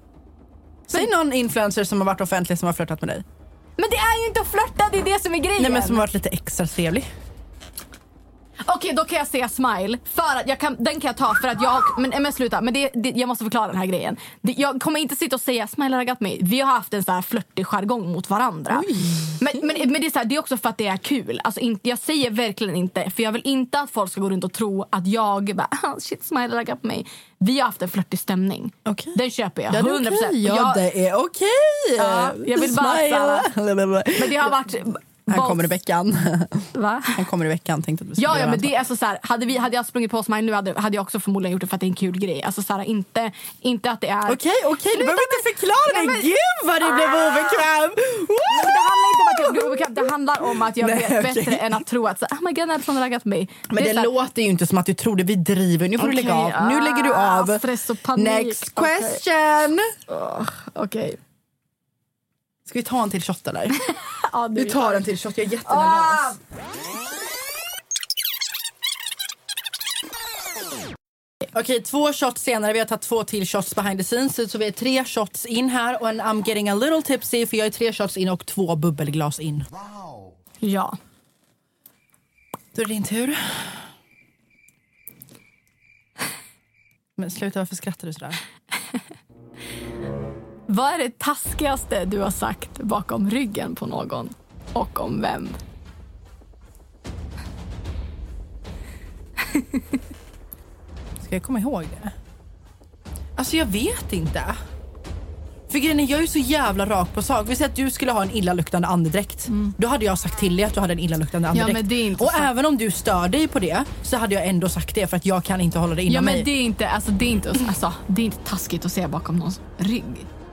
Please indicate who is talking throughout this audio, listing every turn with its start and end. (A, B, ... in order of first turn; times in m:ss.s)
0:00.9-0:03.2 A
0:03.8-0:06.0 B
0:05.6-0:07.1 A
0:08.6-0:30.8 B
0:18.7-0:19.8 A
0:28.8-0:29.2 A
0:29.7-0:34.7 A
0:32.0-0:33.5 B
0:34.1-0:35.6 B
0:35.3-0:38.7 A
0:36.7-0:37.2 B
0:38.2-0:44.4 B
0:44.3-0:50.1 A
0:44.9-0:46.3 B
0:46.8-0:47.6 B
0:48.5-0:54.1 B
0:50.7-0:51.8 A
0:53.7-0:59.9 A
0:56.0-0:59.2 B
1:00.1-1:01.2 B
1:02.6-1:03.8 A
1:04.3-1:05.0 B
1:04.5-1:06.4 A
1:05.6-1:06.4 B
1:11.5-1:19.6 A
1:20.6-1:21.0 B
1:22.7-1:23.8 A
1:27.2-1:28.4 A
1:30.7-1:35.6 B
1:39.5-1:39.8 B
1:41.2-1:42.1 A
1:43.4-1:44.6 A
1:45.7-1:56.5 A
1:49.5-1:49.7 B
1:51.5-1:52.5 B
1:56.1-2:00.3 B